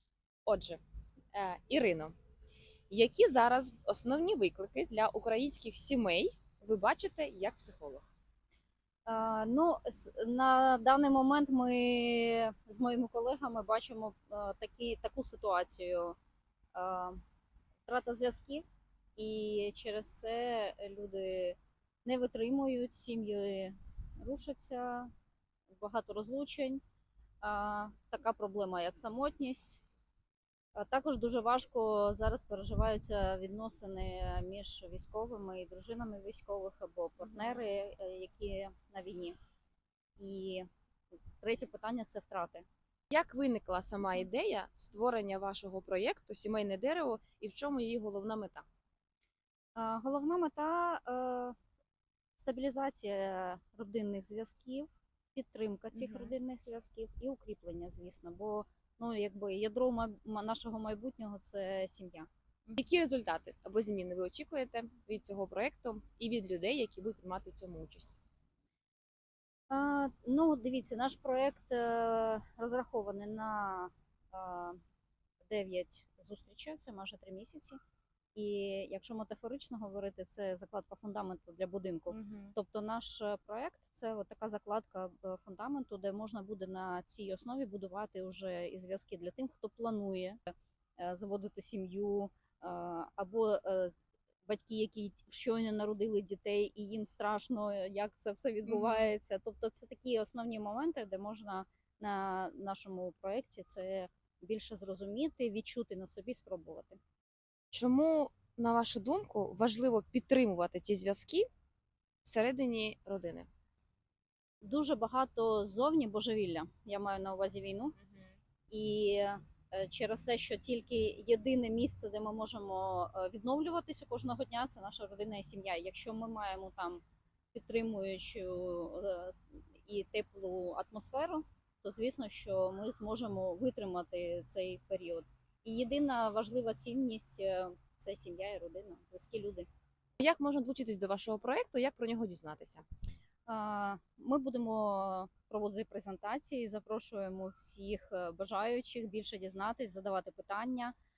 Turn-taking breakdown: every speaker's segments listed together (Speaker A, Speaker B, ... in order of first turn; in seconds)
Speaker A: 0.5-0.8, 1.3-2.1, 2.9-8.1, 43.1-48.6, 55.9-56.3, 62.7-68.2, 82.1-82.5, 98.7-99.1, 107.7-111.5, 112.2-113.5, 140.2-142.8
Speaker B: 9.1-16.1, 16.7-17.2, 17.9-25.1, 25.8-26.8, 27.4-29.8, 30.7-39.4, 40.2-40.7, 41.4-42.6, 49.7-51.5, 52.4-62.3, 69.7-74.8, 75.5-77.8, 78.3-93.9, 94.5-107.0, 114.6-118.0, 118.7-127.0, 127.5-139.7, 143.5-150.9